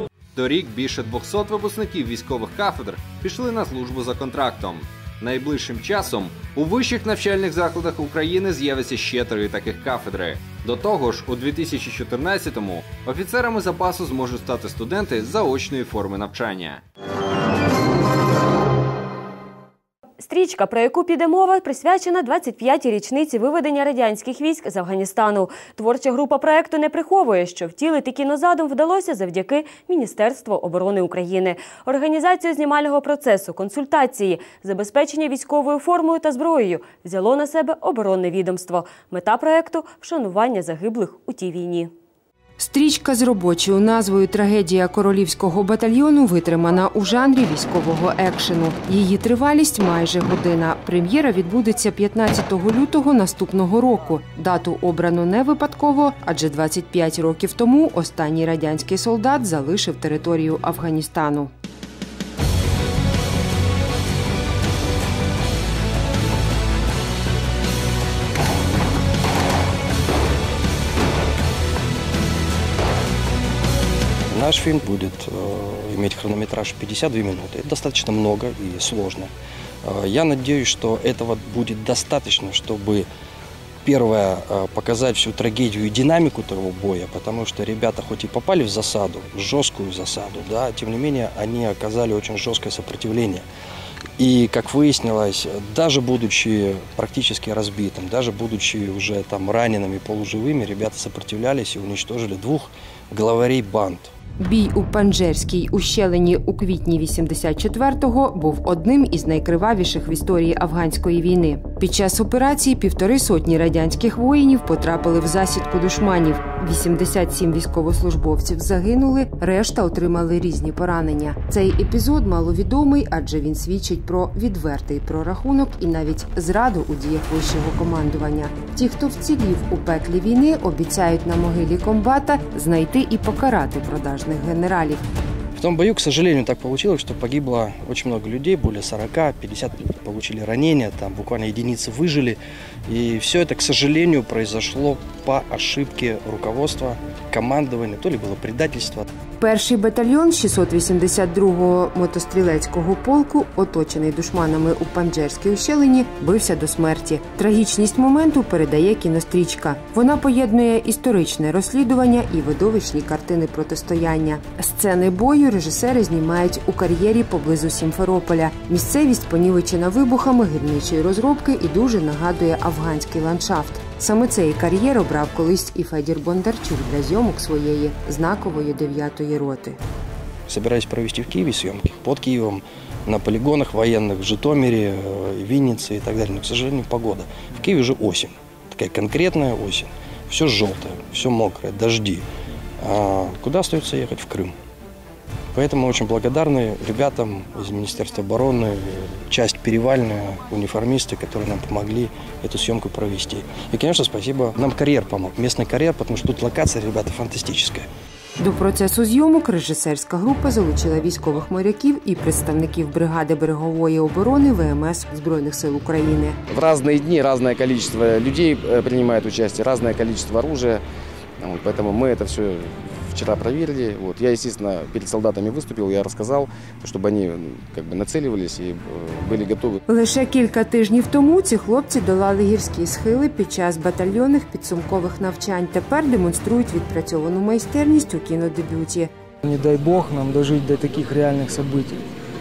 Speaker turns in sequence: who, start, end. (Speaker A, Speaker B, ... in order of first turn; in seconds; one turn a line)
Speaker A: 0.3-16.8
Speaker B: 20.2-41.9
Speaker C: 42.6-61.5
Speaker D: 74.3-79.3
Speaker D: 79.8-83.1
Speaker D: 83.8-93.5
Speaker D: 94.2-104.1
Speaker C: 104.4-135.0
Speaker D: 135.5-149.1
Speaker C: 149.4-179.8
Speaker D: 180.5-192.2
Speaker D: 192.8-194.5
Speaker D: 195.5-207.9
Speaker C: 208.4-216.4
Speaker E: 216.5-220.8
Speaker E: 221.4-229.8
Speaker C: 229.9-239.1
Speaker F: 239.4-242.0